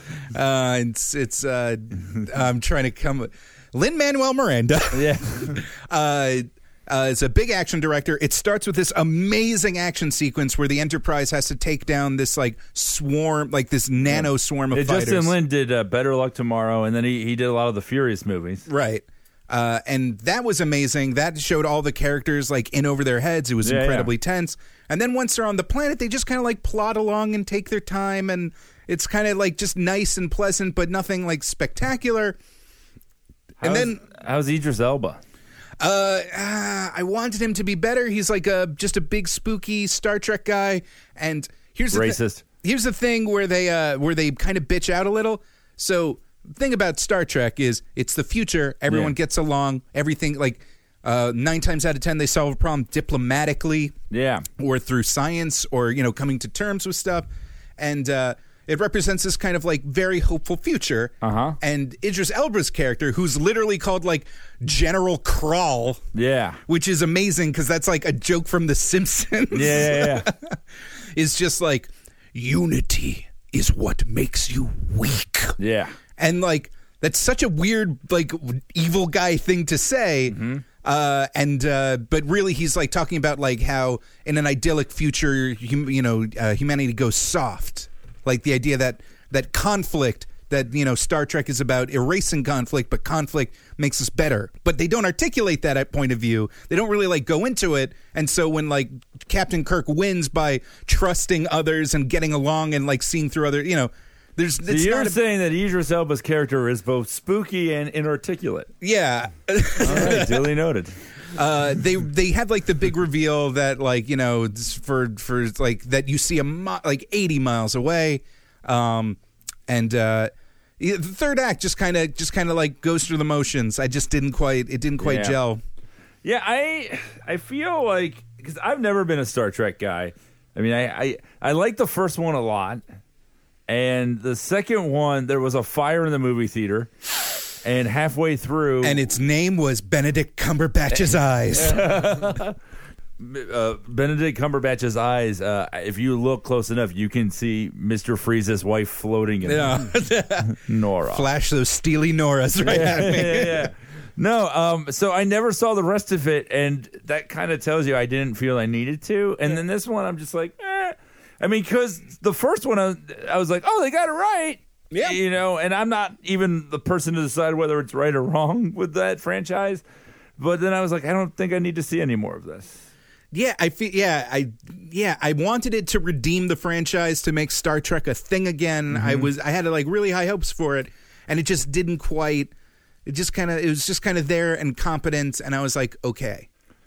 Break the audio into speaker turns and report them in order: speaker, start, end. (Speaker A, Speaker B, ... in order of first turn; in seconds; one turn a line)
Speaker A: 0.3-15.3
Speaker B: 4.9-5.6
Speaker B: 14.1-18.6
Speaker A: 18.7-32.4
Speaker B: 23.6-24.1
Speaker A: 33.6-34.0
Speaker B: 33.6-35.2
Speaker A: 35.8-53.9
Speaker B: 41.9-42.4
Speaker B: 48.9-49.1
Speaker B: 54.1-54.5
Speaker A: 54.6-66.0
Speaker B: 61.2-61.6
Speaker B: 66.1-66.6
Speaker A: 66.7-70.6
Speaker B: 69.5-70.3
Speaker A: 71.1-75.6
Speaker B: 75.6-75.9
Speaker A: 76.2-105.2
Speaker B: 80.3-80.6
Speaker B: 104.7-108.7
Speaker A: 108.8-110.5
Speaker B: 109.8-110.9
Speaker A: 111.3-125.6
Speaker B: 125.0-125.4
Speaker B: 126.2-132.8
Speaker B: 133.7-136.9
Speaker B: 137.6-139.0
Speaker A: 138.8-142.0
Speaker B: 141.5-142.6
Speaker B: 143.2-149.8
Speaker A: 149.4-153.7
Speaker B: 150.5-151.3
Speaker B: 152.6-169.8
Speaker A: 164.9-165.2
Speaker B: 170.4-172.8
Speaker A: 173.3-182.5
Speaker A: 183.1-186.5